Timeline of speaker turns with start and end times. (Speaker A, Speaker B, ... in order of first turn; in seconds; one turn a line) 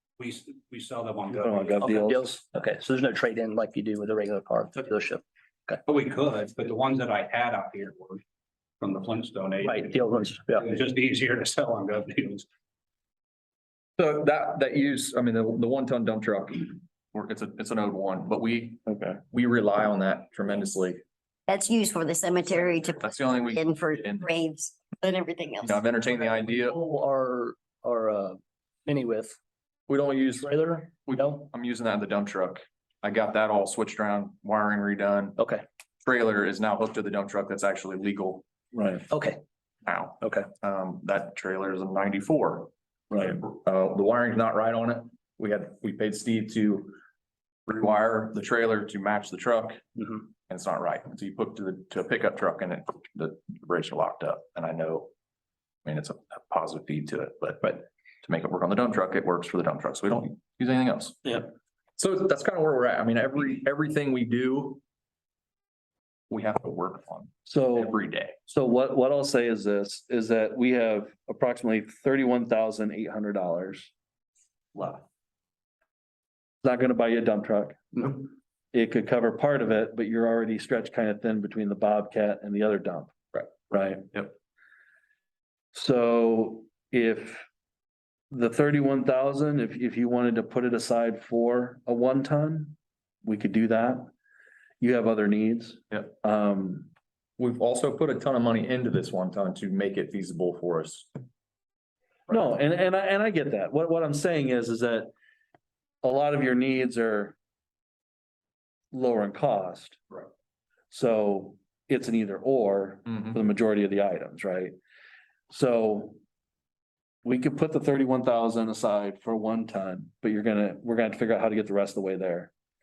Speaker A: 0.2-2.1
Speaker B: 1.4-2.3
Speaker C: 1.8-5.8
Speaker A: 5.8-8.2
Speaker A: 8.8-12.5
Speaker C: 9.6-10.7
Speaker D: 14.0-21.0
Speaker B: 18.9-19.2
Speaker E: 21.5-25.8
Speaker D: 23.0-24.3
Speaker D: 25.6-26.8
Speaker C: 26.1-29.4
Speaker D: 29.9-35.4
Speaker C: 30.4-31.5
Speaker C: 35.4-35.6
Speaker D: 36.0-38.4
Speaker B: 38.7-39.1
Speaker C: 39.1-39.4
Speaker D: 39.9-47.0
Speaker C: 40.2-40.5
Speaker B: 43.1-43.4
Speaker D: 47.7-55.1
Speaker D: 55.9-64.8
Speaker D: 66.3-68.3
Speaker B: 67.5-73.9
Speaker B: 74.8-75.0
Speaker B: 76.6-83.1
Speaker B: 83.7-84.1
Speaker B: 85.7-87.5
Speaker B: 88.3-94.1
Speaker B: 94.8-96.9
Speaker D: 97.4-101.1
Speaker B: 102.3-105.1
Speaker B: 106.0-107.4
Speaker B: 108.9-110.0
Speaker B: 110.9-114.7
Speaker D: 113.1-113.3
Speaker B: 115.5-116.2
Speaker B: 117.2-122.5